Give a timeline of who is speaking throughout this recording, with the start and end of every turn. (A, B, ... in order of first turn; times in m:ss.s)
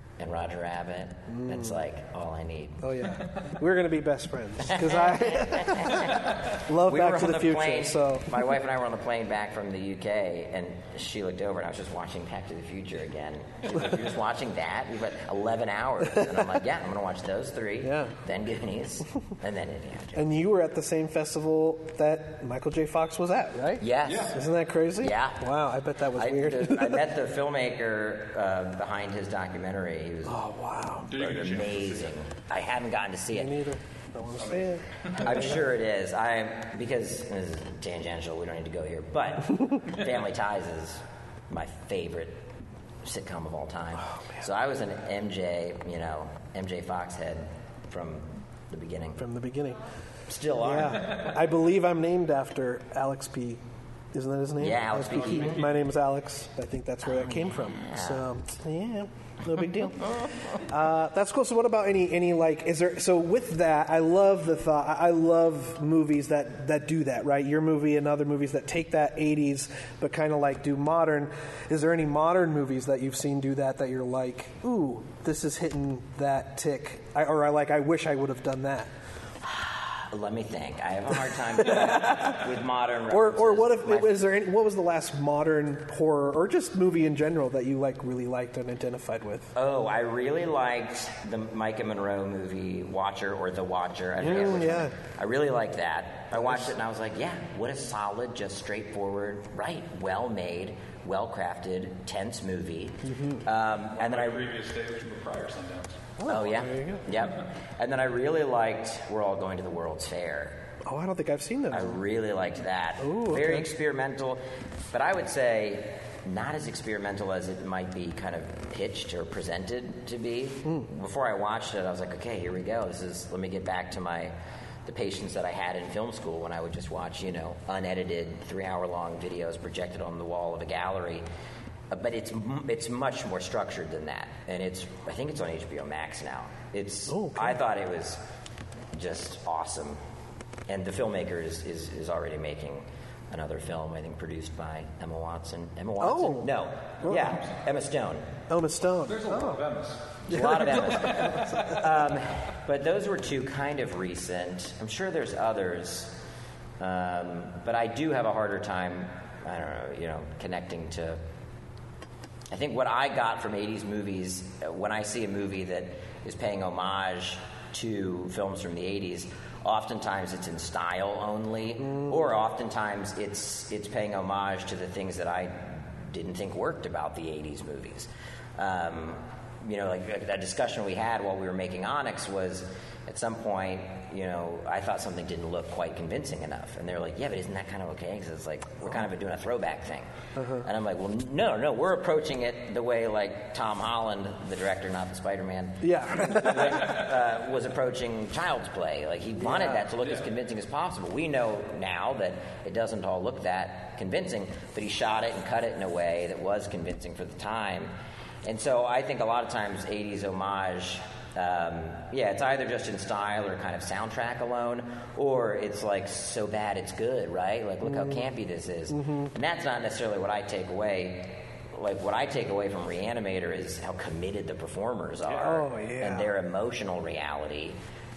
0:00.2-0:02.9 A
0:01.3-0:01.8 B
0:02.8-0:08.4 B
0:03.1-0:03.5 C
0:04.6-0:20.3 A
0:17.8-0:18.2 B
0:20.2-0:27.1 B
0:23.8-0:24.4 A
0:24.0-0:24.4 C
0:25.0-0:25.5 A
0:26.1-0:30.4 A
0:30.2-0:31.2 B
0:31.1-0:32.1 C
0:31.1-0:33.6 A
0:33.3-0:35.6 B
0:34.4-0:35.3 C
0:35.2-0:42.4 A
0:43.0-0:49.2 A
0:49.2-0:49.8 B
0:50.3-0:51.3 A
0:50.6-0:53.6 B
0:54.1-1:18.9 B
0:54.6-0:55.8 A
0:57.0-0:58.2 A
1:00.0-1:00.6 A
1:19.4-1:24.2 A
1:21.6-1:22.4 B
1:23.1-1:29.5 B
1:29.6-1:44.4 A
1:34.2-1:35.0 B
1:43.1-1:43.4 B
1:44.0-1:46.1 C
1:46.2-1:47.1 B
1:46.3-1:50.6 A
1:50.8-1:52.0 B
1:51.7-1:54.4 A
1:53.0-1:53.7 B
1:54.9-2:04.3 A
2:04.9-2:11.2 A
2:11.9-2:18.2 A
2:17.1-2:17.6 B
2:18.9-2:20.0 A
2:20.7-2:28.3 A
2:26.0-2:26.5 B
2:27.0-2:27.4 B
2:28.5-2:29.6 B
2:29.1-2:31.8 C
2:30.3-2:36.2 A
2:30.3-2:31.7 B
2:36.8-2:41.2 A
2:42.5-3:10.1 A
3:10.4-3:10.7 B
3:10.6-3:27.9 A
3:15.8-3:17.0 B
3:19.4-3:19.9 B
3:20.0-3:20.3 C
3:28.4-3:47.8 A
3:37.8-3:38.3 B
3:38.9-3:39.3 B
3:45.3-3:46.3 B